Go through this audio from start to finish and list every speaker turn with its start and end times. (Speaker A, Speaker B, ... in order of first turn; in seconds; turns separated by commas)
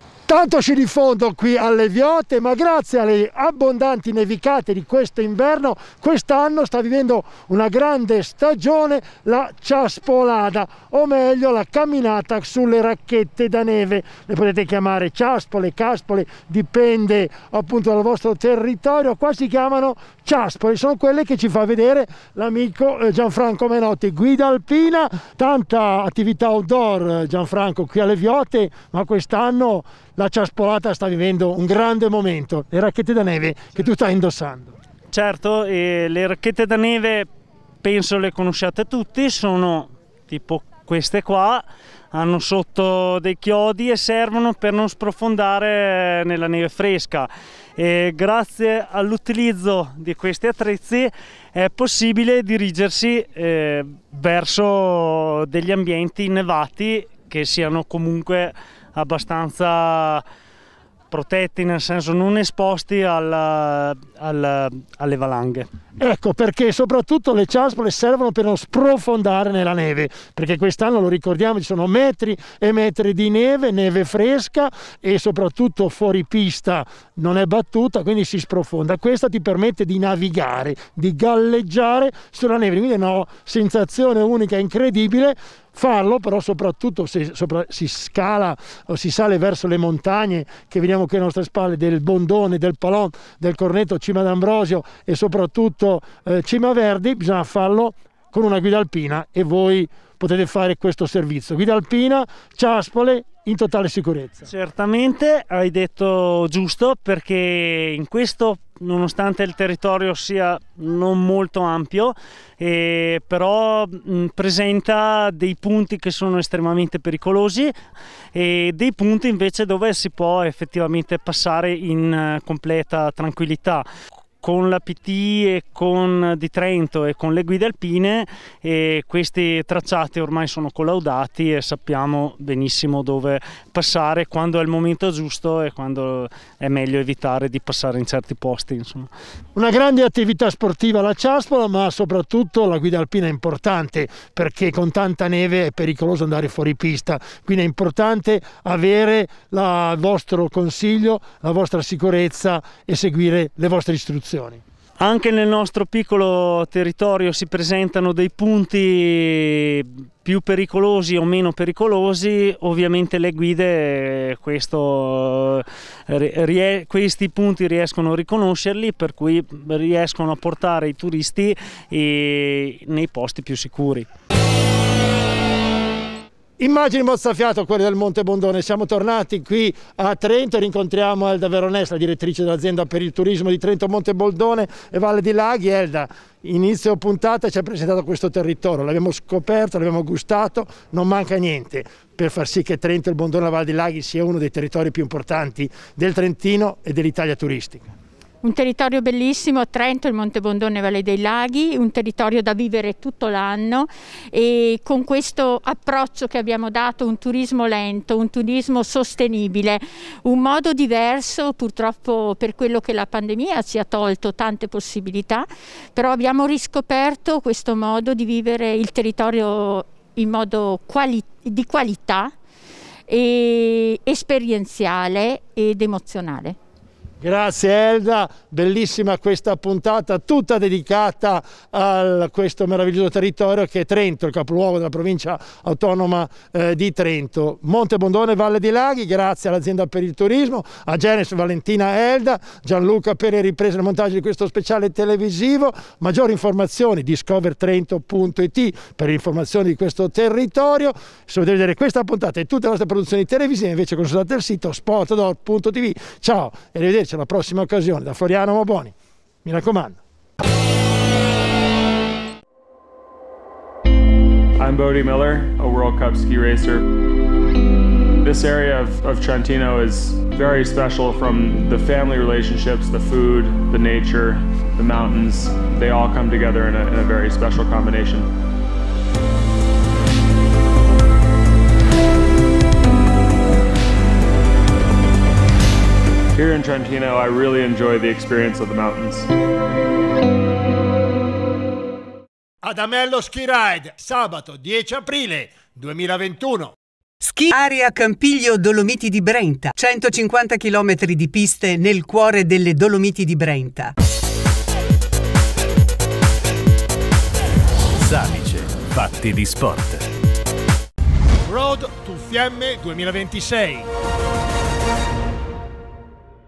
Speaker A: 0.3-34.7, Speaker B: 35.1-37.3, Speaker B: 37.8-60.2, Speaker B: 61.1-65.7, Speaker A: 66.0-104.5, Speaker B: 104.5-117.7, Speaker B: 118.3-123.8, Speaker B: 124.4-139.1, Speaker A: 139.5-154.6, Speaker B: 155.0-174.1, Speaker A: 176.6-197.9, Speaker C: 198.4-222.3, Speaker C: 223.1-226.6, Speaker A: 227.2-260.0, Speaker D: 264.6-266.8, Speaker D: 268.2-278.3, Speaker D: 286.3-289.3, Speaker A: 292.6-296.7, Speaker E: 297.2-303.9, Speaker F: 308.0-310.1, Speaker A: 311.5-313.8